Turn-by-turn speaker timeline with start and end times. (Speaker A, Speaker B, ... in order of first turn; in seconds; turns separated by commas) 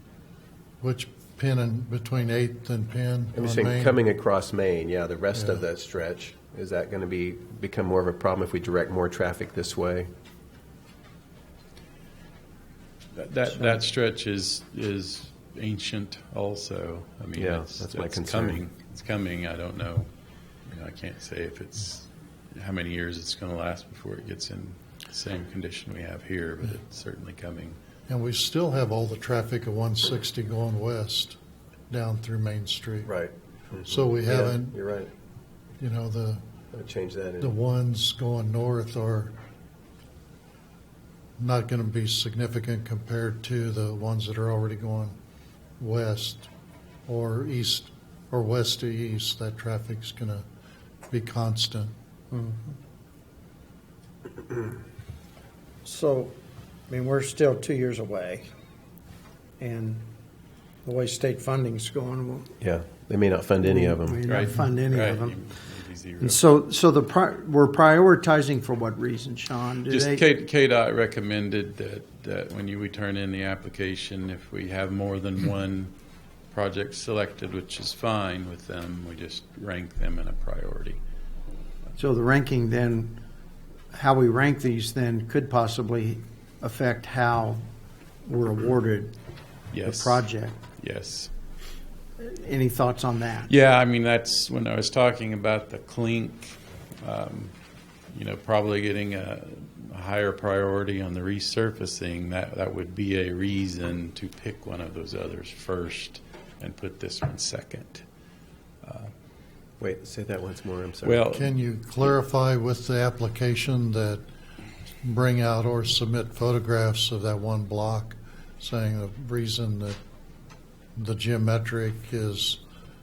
Speaker A: 0.8-4.0, Speaker B: 3.4-10.1, Speaker A: 5.3-5.6, Speaker C: 13.1-20.1, Speaker B: 17.4-18.6, Speaker C: 20.7-27.8, Speaker A: 28.1-31.4, Speaker A: 31.9-33.1, Speaker B: 33.0-35.1, Speaker A: 33.8-34.8, Speaker A: 35.8-36.4, Speaker B: 36.7-37.5, Speaker A: 37.4-39.4, Speaker A: 41.4-45.2, Speaker A: 45.8-46.5, Speaker A: 47.1-50.5, Speaker A: 51.1-51.9, Speaker D: 52.3-52.8, Speaker D: 55.8-56.3, Speaker D: 56.9-58.5, Speaker D: 59.6-60.0, Speaker D: 60.9-62.6, Speaker B: 62.6-64.2, Speaker D: 63.6-65.4, Speaker C: 64.2-66.4, Speaker D: 66.2-70.2, Speaker C: 69.9-75.9, Speaker C: 76.5-81.0, Speaker D: 82.0-83.2, Speaker D: 83.9-87.6, Speaker D: 88.2-89.1, Speaker C: 89.7-90.2, Speaker D: 89.8-90.6, Speaker C: 90.8-91.3, Speaker D: 92.2-93.5, Speaker C: 93.5-97.5, Speaker C: 98.1-108.0, Speaker C: 108.8-109.1, Speaker B: 109.8-111.2, Speaker C: 111.0-111.5, Speaker A: 111.3-114.2, Speaker A: 115.0-120.0, Speaker A: 121.0-122.6